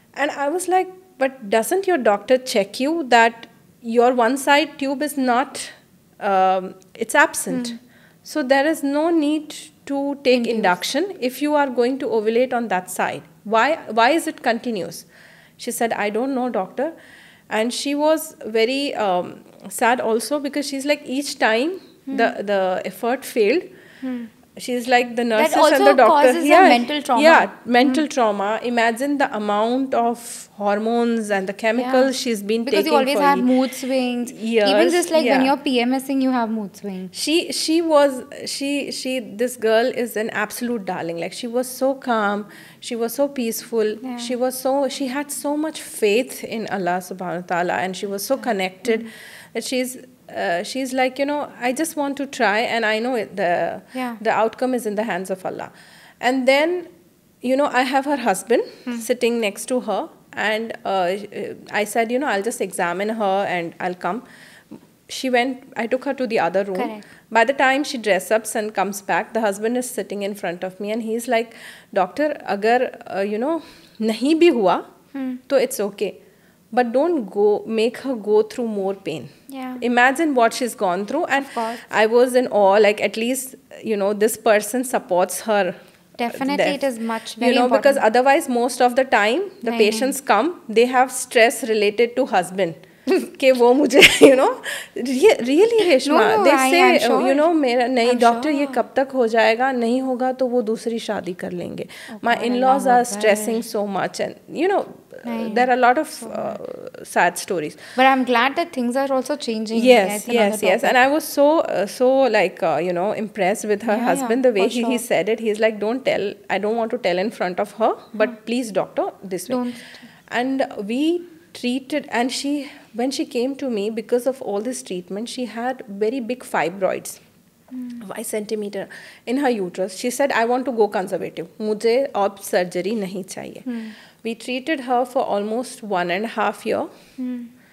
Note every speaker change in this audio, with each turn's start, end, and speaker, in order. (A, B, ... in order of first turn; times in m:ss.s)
0:00.2-0:15.0 A
0:10.3-0:10.7 B
0:15.6-0:16.9 A
0:17.5-0:23.7 A
0:24.0-0:24.3 B
0:24.6-0:33.5 A
0:25.4-0:28.0 B
0:31.8-0:32.1 B
0:32.6-0:37.1 B
0:34.3-0:35.5 A
0:37.1-0:56.9 A
0:44.0-0:44.3 B
0:53.9-0:54.2 B
0:57.4-1:04.2 A
1:05.1-1:14.9 A
1:06.8-1:07.1 B
1:15.1-1:15.4 B
1:15.5-1:16.2 A
1:16.7-1:25.8 A
1:19.5-1:19.8 B
1:21.4-1:21.8 B
1:26.2-1:28.0 B
1:26.3-1:26.8 A
1:27.4-1:47.8 A
1:29.6-1:30.1 B
1:36.0-1:37.5 B
1:38.0-1:38.8 B
1:42.1-1:43.6 B
1:45.2-1:45.7 B
1:46.2-1:46.6 B
1:48.0-1:51.0 B
1:49.7-1:59.6 A
1:53.9-1:55.0 B
1:59.5-2:00.0 B
2:00.3-2:07.2 A
2:07.7-2:08.0 B
2:08.0-2:13.7 A
2:13.6-2:13.9 B
2:14.2-2:16.9 A
2:17.2-2:17.5 B